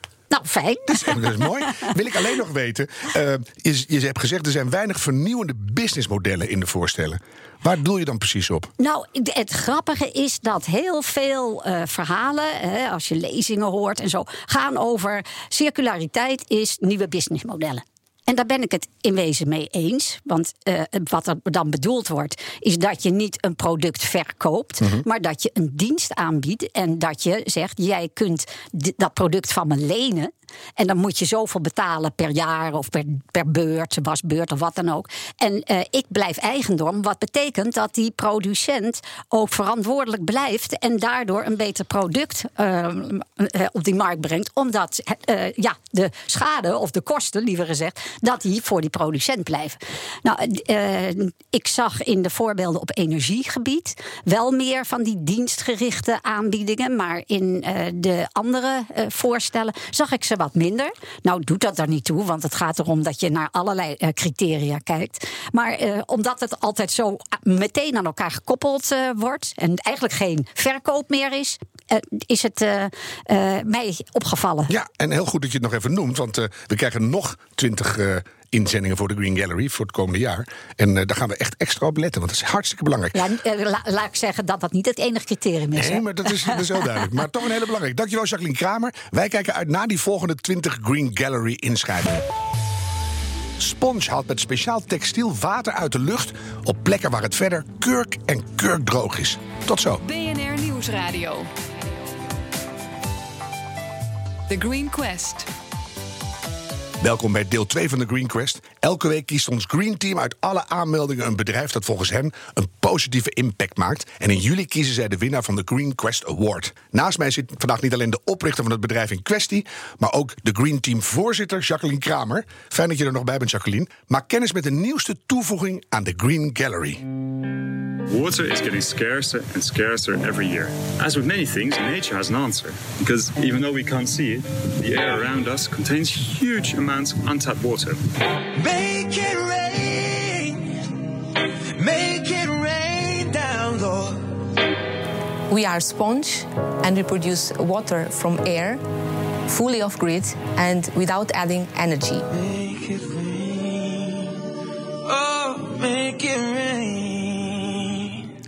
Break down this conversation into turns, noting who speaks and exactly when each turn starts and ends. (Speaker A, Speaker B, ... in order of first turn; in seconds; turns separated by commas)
Speaker A: 0.3-1.9, Speaker B: 0.9-8.7, Speaker A: 8.8-74.7, Speaker B: 74.7-83.2, Speaker A: 83.1-86.8, Speaker B: 85.8-92.2, Speaker B: 93.6-100.0, Speaker C: 100.1-101.5, Speaker C: 104.5-105.5, Speaker B: 107.0-127.0, Speaker D: 128.1-138.0, Speaker E: 138.6-140.8, Speaker E: 141.8-144.3, Speaker F: 145.5-148.8, Speaker F: 149.5-152.3, Speaker E: 152.3-154.3, Speaker E: 155.1-158.2